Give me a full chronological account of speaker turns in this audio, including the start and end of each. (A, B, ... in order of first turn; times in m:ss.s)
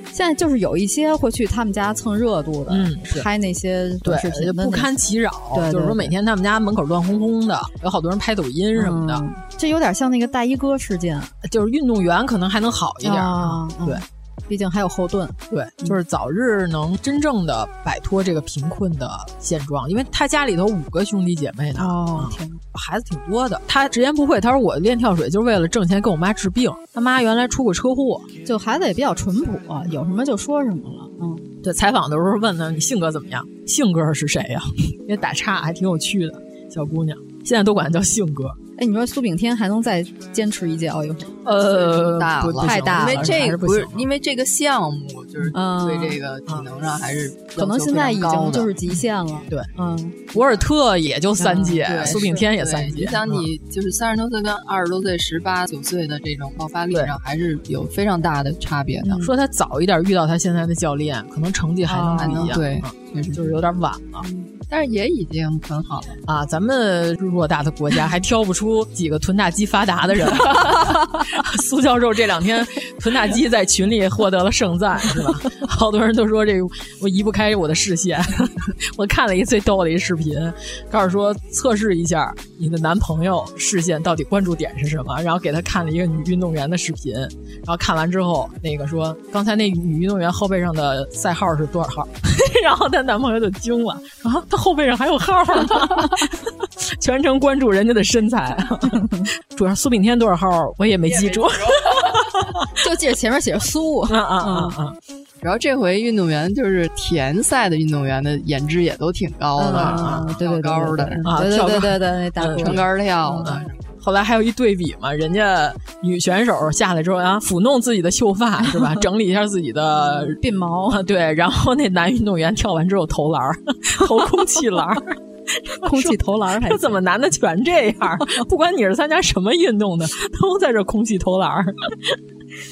0:00.1-0:04.9 A
0:02.7-0:03.2 B
0:04.0-0:09.2 B
0:05.5-0:06.1 A
0:08.8-0:11.3 A
0:11.4-0:14.0 B
0:13.0-0:16.0 A
0:15.5-0:28.3 B
0:21.8-0:22.6 A
0:28.4-0:31.5 A
0:31.6-0:38.6 B
0:38.8-0:41.3 A
0:41.4-0:44.1 B
0:41.6-0:48.7 C
0:42.6-0:43.4 A
0:45.5-0:46.2 A
0:47.6-0:50.3 A
0:50.3-0:53.5 B
0:51.4-0:52.4 A
0:51.8-0:59.2 C
0:59.0-0:59.3 A
0:59.2-1:04.2 B
1:01.9-1:02.6 A
1:02.1-1:03.6 C
1:04.7-1:06.2 C
1:06.2-1:42.6 B
1:42.8-1:44.8 A
1:44.1-1:45.0 B
1:45.4-1:51.2 C
1:49.6-1:53.6 A
1:49.7-1:50.3 B
1:51.2-1:52.8 B
1:52.6-1:53.9 C
1:53.4-2:00.4 B
2:00.0-2:01.0 A
2:00.9-2:12.2 B
2:05.8-2:07.0 A